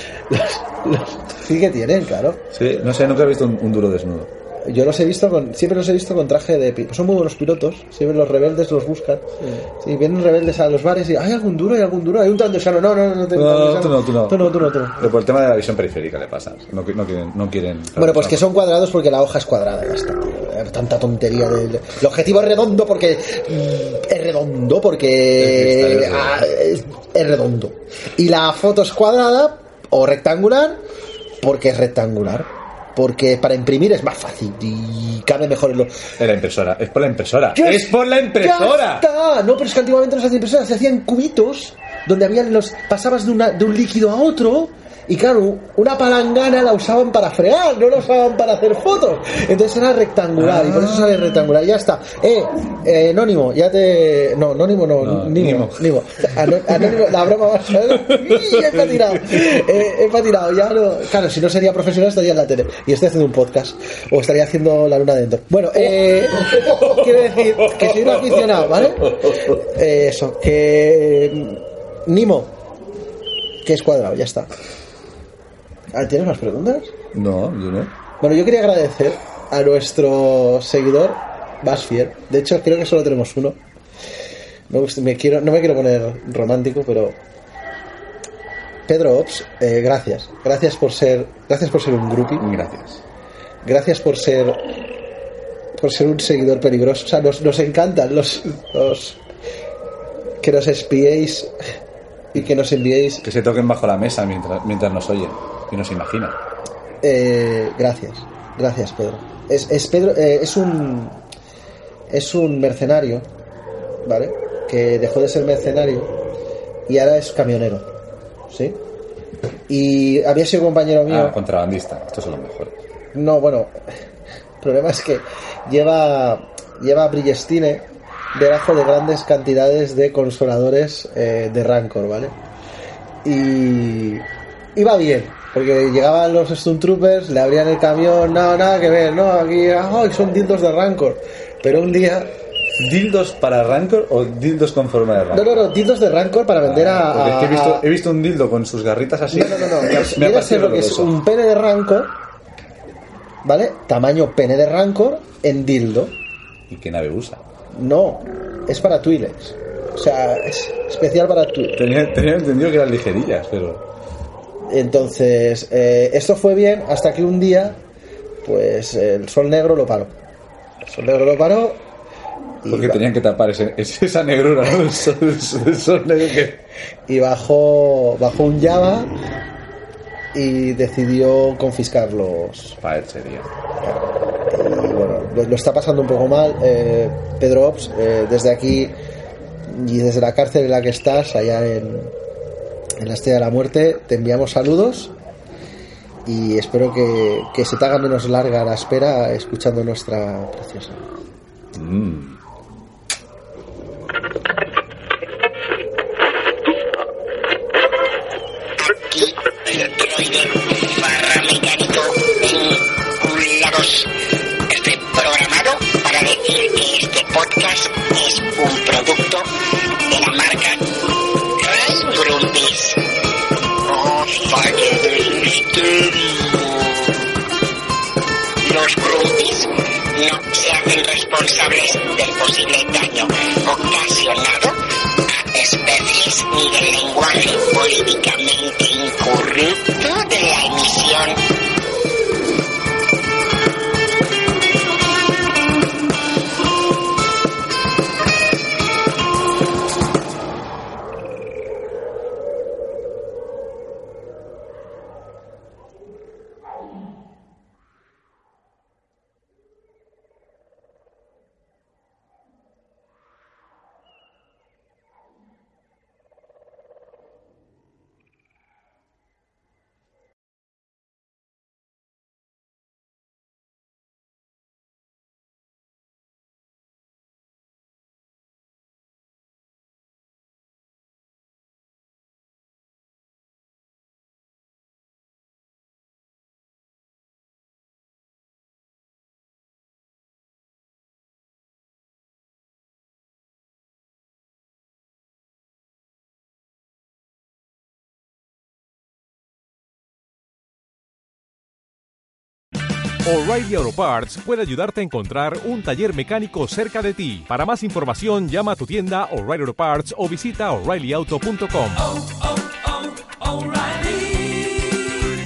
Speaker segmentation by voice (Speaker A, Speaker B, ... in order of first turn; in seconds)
Speaker A: 0.3-2.5, 4.7-15.1, 17.9-30.8, 31.4-36.0, 37.5-72.5, 73.6-74.5, 75.9-76.9, 78.2-83.6, 84.7-87.2, 88.9-92.4, 93.6-94.6, 95.8-99.2, 100.4-101.5, 102.3-103.2, 107.0-111.2, 112.1-113.3, 114.0-116.1, 116.9-117.9, 118.5-118.8, 119.7-121.4, 123.1-123.8, 124.6-132.3, 133.2-142.3, 145.3-147.8, 149.3-152.1, 153.4-156.1, 157.7-161.8, 164.7-167.8, 168.4-170.1, 170.8-171.8, 172.6-173.1, 177.1-179.1, 180.3-182.8, 183.8-188.9, 189.7-192.1, 193.0-195.1, 196.2-201.0
Speaker B: 2.5-4.3, 13.3-18.5, 25.4-26.5, 36.2-39.1, 50.4-51.3, 55.0-55.9, 57.9-59.6, 65.8-69.6, 77.1-77.9, 92.4-93.0, 103.2-106.4, 121.1-122.7, 142.8-145.6, 146.6-151.1, 156.7-157.4, 161.8-163.8, 172.7-176.6, 182.8-183.5, 201.7-202.4
Speaker C: 208.9-214.1, 214.7-219.5, 220.0-220.9, 221.6-223.0, 223.8-227.2, 228.6-234.8, 235.3-241.4
Speaker D: 303.2-315.2